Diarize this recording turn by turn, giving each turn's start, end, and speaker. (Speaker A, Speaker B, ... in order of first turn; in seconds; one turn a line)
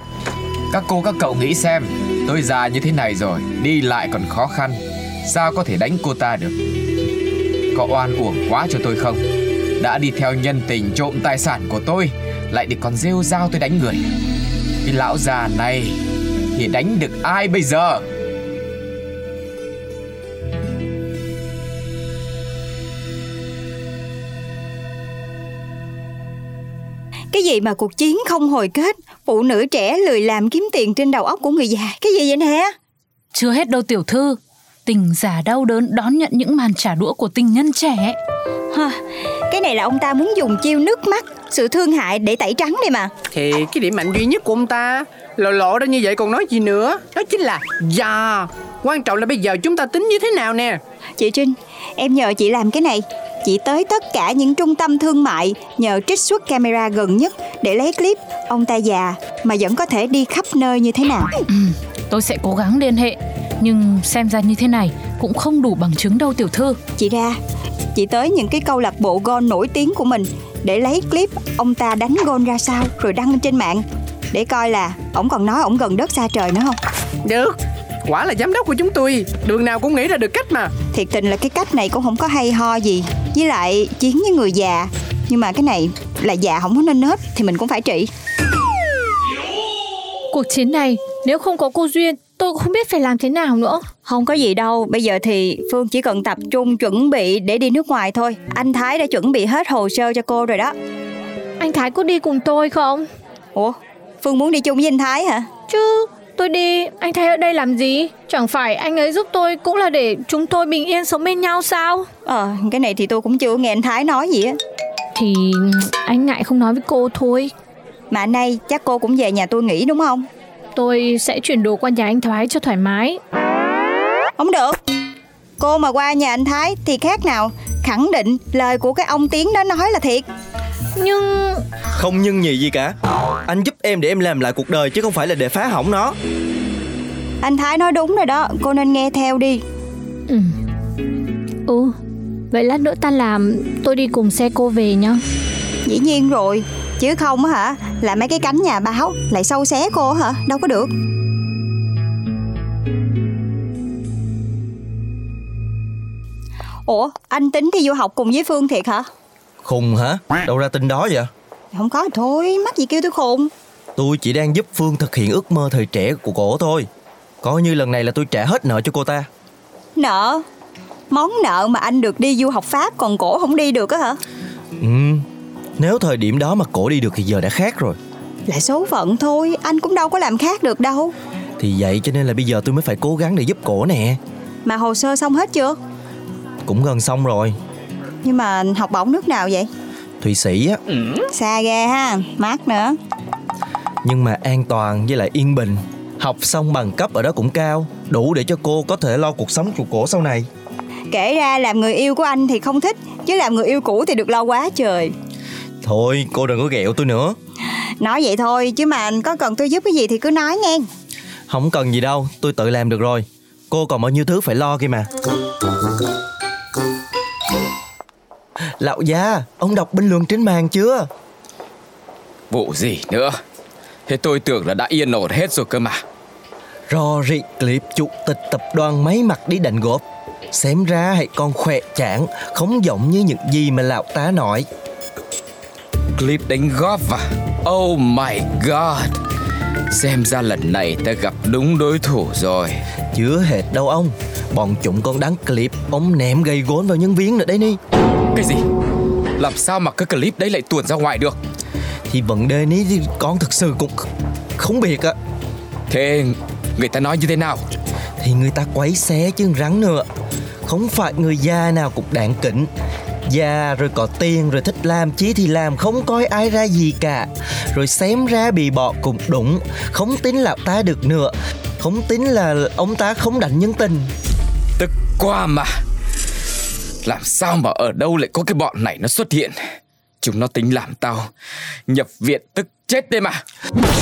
Speaker A: 0.7-6.5
Speaker A: 7.7-9.2
Speaker A: 9.8-14.1
Speaker A: 14.8-16.0
Speaker A: 16.5-18.0
Speaker B: 27.3-32.7
Speaker C: 33.3-38.2
Speaker B: 39.5-43.1
Speaker D: 43.3-50.8
Speaker B: 51.2-61.5
Speaker C: 61.5-66.8
Speaker B: 67.0-67.4
Speaker B: 68.0-76.8
Speaker D: 77.3-77.5
Speaker D: 78.1-80.7
Speaker B: 80.9-88.1
Speaker E: 90.3-93.9
Speaker B: 94.0-100.7
Speaker E: 101.6-103.1
Speaker B: 103.6-105.5
Speaker E: 105.7-112.1
Speaker B: 112.3-114.6
Speaker E: 115.2-117.5
Speaker B: 118.1-120.3
Speaker E: 120.8-123.2
Speaker B: 124.4-124.8
Speaker B: 125.6-130.2
Speaker E: 131.0-131.6
Speaker F: 132.0-136.2
Speaker B: 137.4-139.6
Speaker E: 140.3-140.6
Speaker E: 141.7-141.9
Speaker E: 142.5-145.2
Speaker B: 145.9-150.9
Speaker B: 156.9-159.1
Speaker F: 159.6-161.3
Speaker B: 161.7-163.5
Speaker F: 164.0-166.9
Speaker F: 167.4-169.3
Speaker B: 170.0-170.4
Speaker B: 171.1-174.2
Speaker F: 174.8-175.2
Speaker F: 175.8-178.0
Speaker B: 178.5-181.1
Speaker F: 181.6-184.2
Speaker B: 184.7-185.8
Speaker F: 186.7-187.6
Speaker B: 188.2-189.7
Speaker F: 190.2-190.8
Speaker B: 191.3-192.9
Speaker F: 194.0-200.5
Speaker B: 201.1-205.1
Speaker F: 205.8-207.3
Speaker B: 208.0-210.9
Speaker F: 211.5-215.1
Speaker F: 218.8-221.1
Speaker A: 222.5-223.3
Speaker A: 224.1-226.0
Speaker F: 226.9-230.0
Speaker F: 230.5-234.7
Speaker A: 236.2-239.2
Speaker A: 239.9-242.8
Speaker F: 243.1-247.8
Speaker A: 248.3-248.6
Speaker A: 249.4-251.4
Speaker F: 252.1-254.1
Speaker F: 254.6-255.2
Speaker A: 255.9-257.6
Speaker F: 258.2-260.1
Speaker F: 260.7-262.7
Speaker F: 263.3-274.1
Speaker A: 274.8-275.7
Speaker A: 277.0-279.6
Speaker A: 280.2-281.2
Speaker A: 281.9-283.4